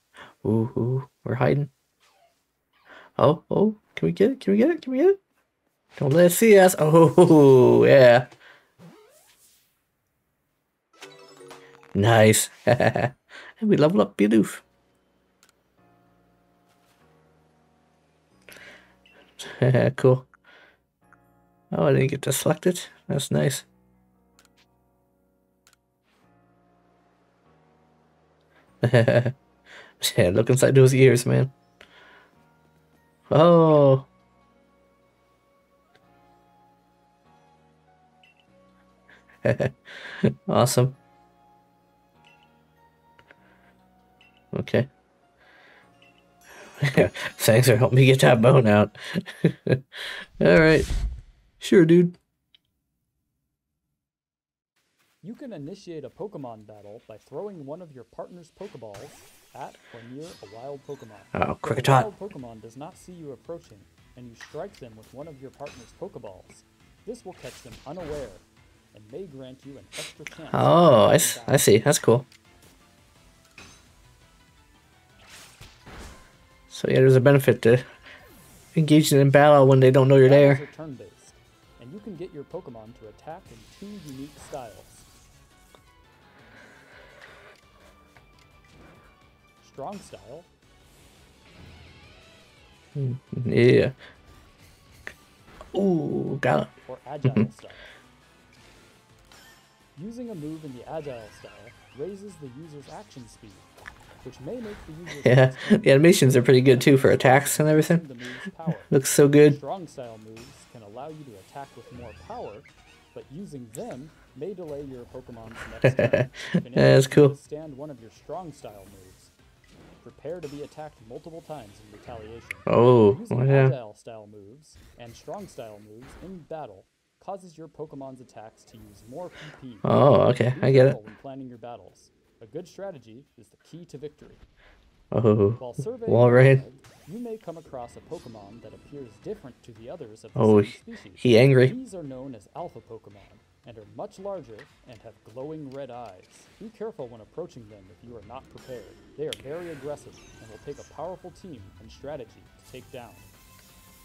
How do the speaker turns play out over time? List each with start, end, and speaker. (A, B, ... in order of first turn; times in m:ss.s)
0:00.4-0:01.7 A
0:03.2-0:05.2 A
0:06.0-0:08.3 A
0:11.9-0:14.6 A
0:19.4-0:20.3 A
0:21.7-0:23.6 A
0:28.8-0:29.3 A
0:30.0-0:31.5 A
0:33.3-0:34.1 A
0:39.4-0:41.0 A
0:44.5-0:44.9 A
0:46.8-0:49.8 A
0:50.4-0:50.9 A
0:51.6-0:52.2 A
0:55.2-1:11.8 B
1:01.3-1:02.1 A
1:10.5-1:12.3 A
1:16.7-1:17.8 A
1:18.7-1:20.6 A
1:20.2-1:25.1 B
1:29.6-1:30.5 B
1:32.9-1:34.0 A
1:35.7-1:36.7 A
1:36.8-1:37.8 B
1:39.9-1:43.7 B
1:44.2-1:59.3 B
1:45.2-1:48.0 A
1:48.9-1:49.6 A
1:55.8-1:57.4 A
2:00.0-2:14.4 B
2:02.7-2:03.8 A
2:09.8-2:11.0 A
2:15.1-2:16.6 A
2:15.6-2:33.3 B
2:20.4-2:21.8 A